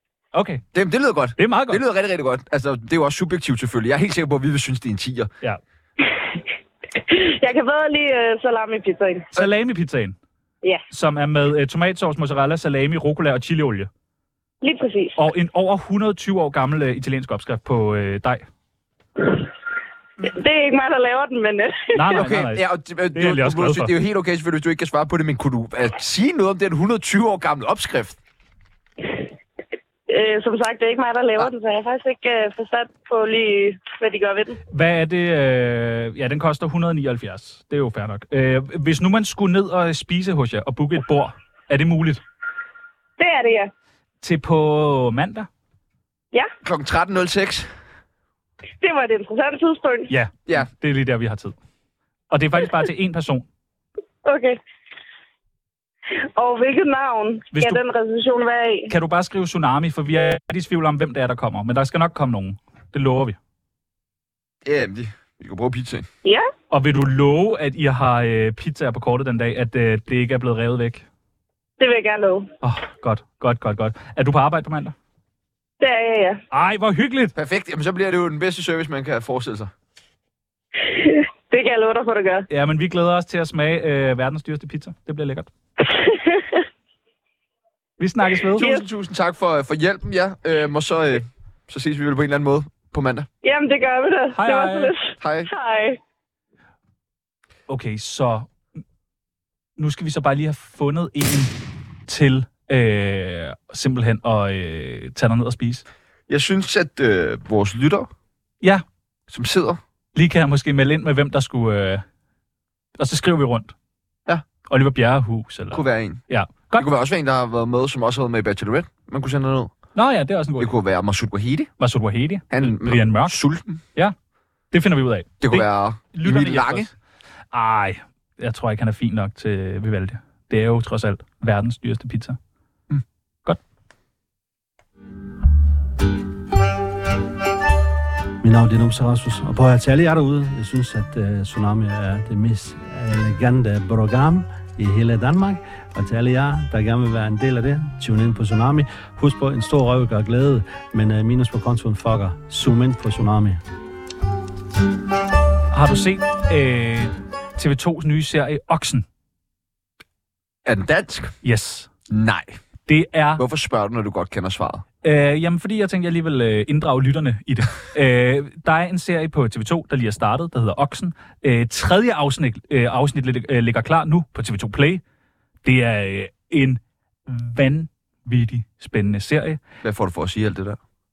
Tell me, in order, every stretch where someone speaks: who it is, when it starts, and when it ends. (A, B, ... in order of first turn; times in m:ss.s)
0:00.3-0:00.6 A
0:00.7-0:05.3 B
0:01.4-0:01.8 A
0:06.9-0:09.3 C
0:09.3-0:10.2 A
0:10.9-0:13.9 A
0:14.6-0:15.2 C
0:15.2-0:18.4 A
0:20.2-0:22.1 C
0:21.9-0:23.9 A
0:22.1-0:28.2 B
0:30.1-0:34.6 C
0:34.7-0:42.2 A
0:43.2-0:43.7 C
0:44.2-0:45.5 A
0:46.6-0:47.7 B
0:48.8-0:50.1 C
0:50.1-0:51.6 A
0:52.3-0:53.4 A
0:54.2-0:54.6 C
0:56.3-0:58.9 C
0:57.5-0:57.8 A
0:58.9-1:03.4 A
1:04.6-1:06.1 B
1:06.2-1:06.5 C
1:06.7-1:11.0 A
1:11.8-1:12.5 C
1:12.6-1:14.9 A
1:15.8-1:16.4 C
1:16.5-1:17.3 A
1:17.3-1:19.7 B
1:20.8-1:22.5 C
1:22.5-1:25.5 A
1:25.8-1:26.6 C
1:28.0-1:28.7 A
1:28.6-1:33.3 B
1:28.6-1:28.8 C
1:33.4-1:36.0 C
1:34.3-1:34.9 A
1:35.2-1:35.5 B
1:37.7-1:38.5 A
1:39.8-1:41.5 A
1:42.1-1:45.8 A
1:46.3-1:48.1 B
1:49.3-1:49.8 B
1:50.1-1:52.0 A
1:53.0-1:53.7 A
1:54.7-1:56.9 A
1:55.7-1:56.2 B
1:56.7-1:59.7 B
1:59.9-2:00.7 A
2:00.6-2:01.7 B
2:01.8-2:03.4 A
2:02.5-2:03.8 B
2:04.7-2:06.9 A
2:05.4-2:06.9 B
2:07.5-2:12.4 A
2:18.4-2:33.6 D
2:35.7-2:39.0 A
2:40.6-2:41.3 B
2:41.4-2:41.9 A
2:42.1-2:42.6 B
2:42.9-2:43.4 A
2:43.4-2:44.8 B
2:45.0-2:55.0 A
2:55.6-2:59.6 A
2:59.8-3:00.8 B